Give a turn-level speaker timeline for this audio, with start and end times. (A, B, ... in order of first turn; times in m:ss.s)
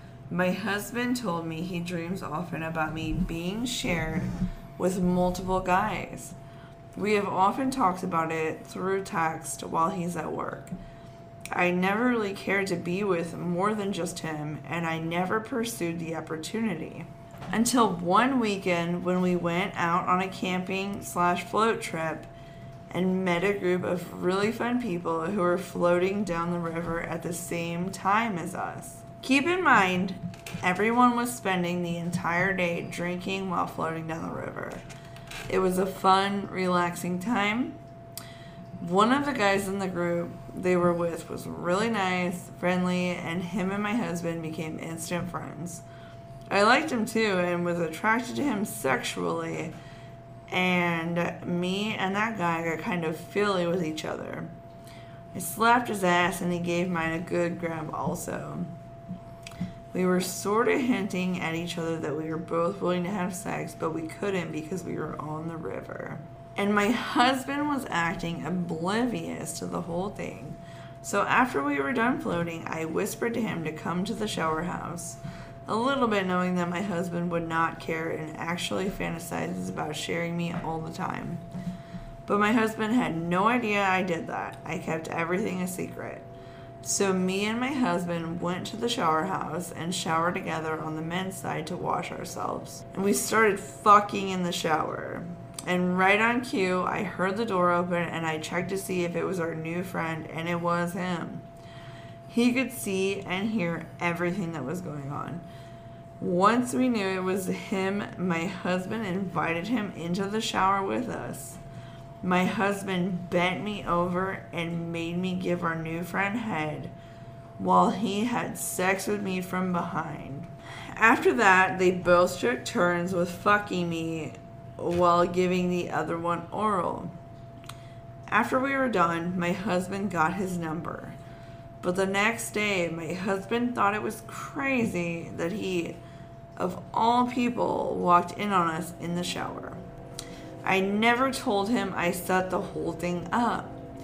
0:00.3-0:06.4 A
0:07.0-0:10.7 A
0:11.5-0:22.3 A
0:22.9-0:34.8 A
0:35.5-0:37.8 A
0:38.8-0:45.8 A
0:46.5-0:49.7 A
0:50.5-0:54.5 A
0:55.3-0:58.7 A
0:59.9-1:21.4 A
1:22.3-1:26.2 A
1:26.8-1:41.4 A
1:42.3-1:45.4 A
1:46.2-1:51.6 A
1:52.2-1:56.9 A
1:57.6-2:07.1 A
2:08.3-2:11.2 A
2:11.8-2:16.0 A
2:16.6-2:19.8 A
2:20.6-2:23.7 A